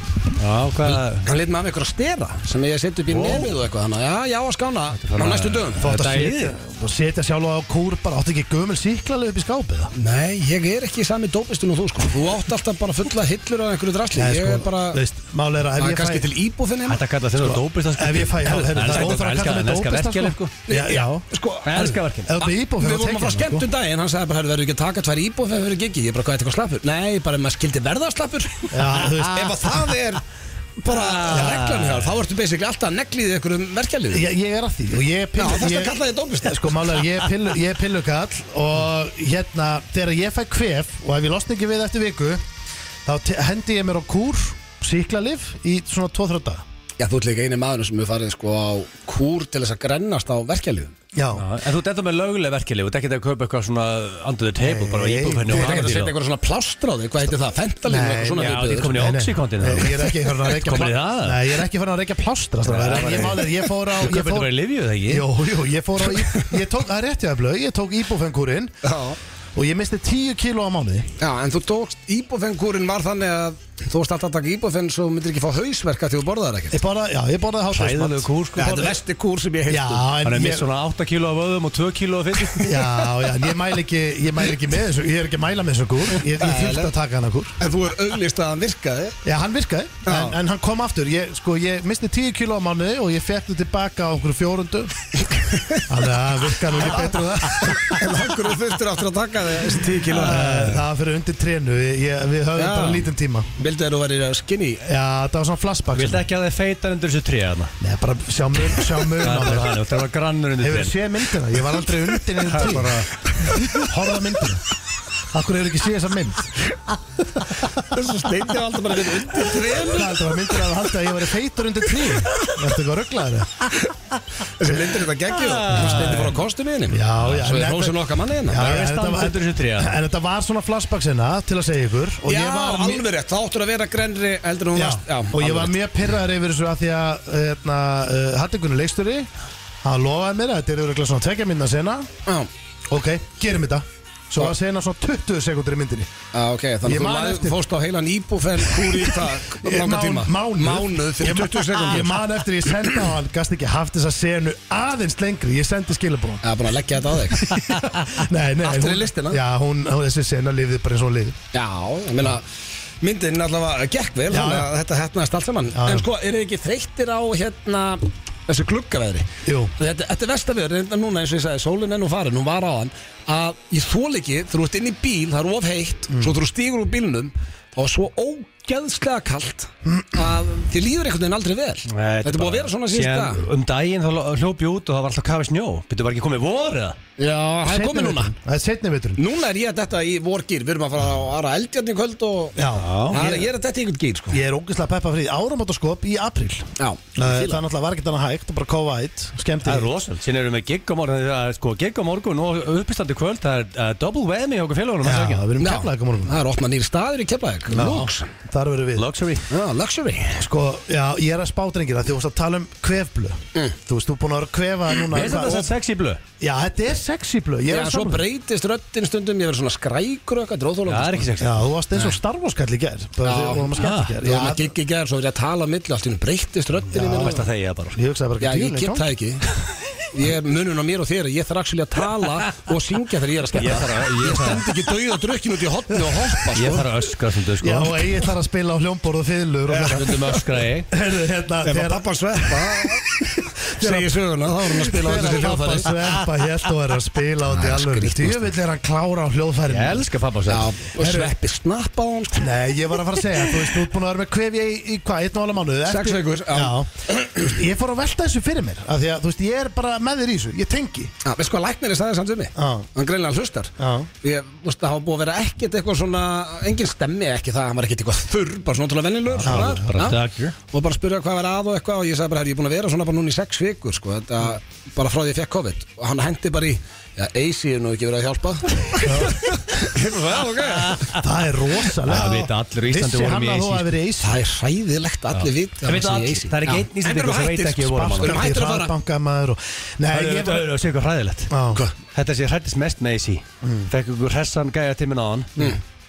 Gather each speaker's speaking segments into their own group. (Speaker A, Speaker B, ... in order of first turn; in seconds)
Speaker A: 0.3-1.2, 3.1-3.5, 5.0-6.5, 16.9-20.5, 21.6-22.3, 30.9-32.1, 51.3-56.1, 58.4-61.4, 62.6-65.3, 77.7-79.0, 80.2-82.8, 100.1-100.8, 105.9-107.7, 109.2-110.9, 112.5-113.1, 125.3-126.4, 128.5-129.9, 181.9-187.0, 192.8-193.3, 199.6-205.4, 208.9-209.4, 215.1-216.2, 220.8-221.7, 223.7-224.2, 226.9-228.0, 233.5-234.7, 236.5-238.2, 239.9-240.9, 249.7-250.7, 269.3-270.5, 280.6-281.3, 281.9-283.9, 285.3-288.5, 290.1-295.7
Speaker B: 0.8-5.8, 9.9-15.0, 15.8-17.0, 20.7-30.2, 30.8-34.2, 35.4-37.0, 47.0-50.9, 55.5-58.9, 68.8-69.2, 71.2-76.8, 78.5-80.1, 86.3-86.9, 87.6-89.2, 90.0-90.3, 95.2-95.8, 96.7-100.5, 102.5-103.1, 103.6-104.8, 117.8-120.5, 124.6-128.6, 132.2-135.8, 146.3-153.0, 156.4-157.7, 158.6-159.4, 161.5-162.4, 163.0-183.4, 187.2-188.3, 189.2-194.4, 196.8-197.6, 205.6-208.3, 209.5-210.4, 217.7-221.3, 223.2-227.4, 228.4-229.4, 230.1-236.9, 239.7-240.4, 241.6-243.0, 243.8-245.9, 247.5-248.5, 250.5-252.5, 255.8-257.4, 261.2-270.2, 270.7-281.1, 284.2-288.9
Speaker C: 5.8-9.9, 14.1-16.3, 17.4-23.7, 28.7-29.9, 31.3-31.7, 34.1-42.4, 43.0-46.6, 51.1-51.4, 54.6-55.9, 57.9-68.8, 69.5-71.1, 76.7-78.9, 79.7-80.7, 82.6-87.6, 89.2-94.9, 95.9-98.1, 100.2-103.5, 104.8-106.2, 107.8-109.8, 110.6-114.6, 115.3-116.5, 119.8-123.7, 126.9-133.0, 134.7-139.3, 139.8-142.1, 142.9-146.1, 146.8-147.6, 148.8-156.5, 157.4-161.4, 164.3-164.7, 165.7-166.1, 169.4-169.7, 176.1-176.3, 179.8-180.2, 187.7-189.2, 192.6-193.5, 194.3-199.9, 205.0-206.4, 207.7-209.1, 210.4-215.7, 216.4-218.2, 221.4-224.7, 226.9-227.4, 227.9-229.0, 237.6-240.2, 240.9-250.1, 251.0-251.3, 252.3-261.1, 262.6-262.9, 263.8-264.1, 269.4-269.9, 279.0-279.6, 281.1-284.4, 287.9-290.7, 291.5-291.8, 293.6-293.9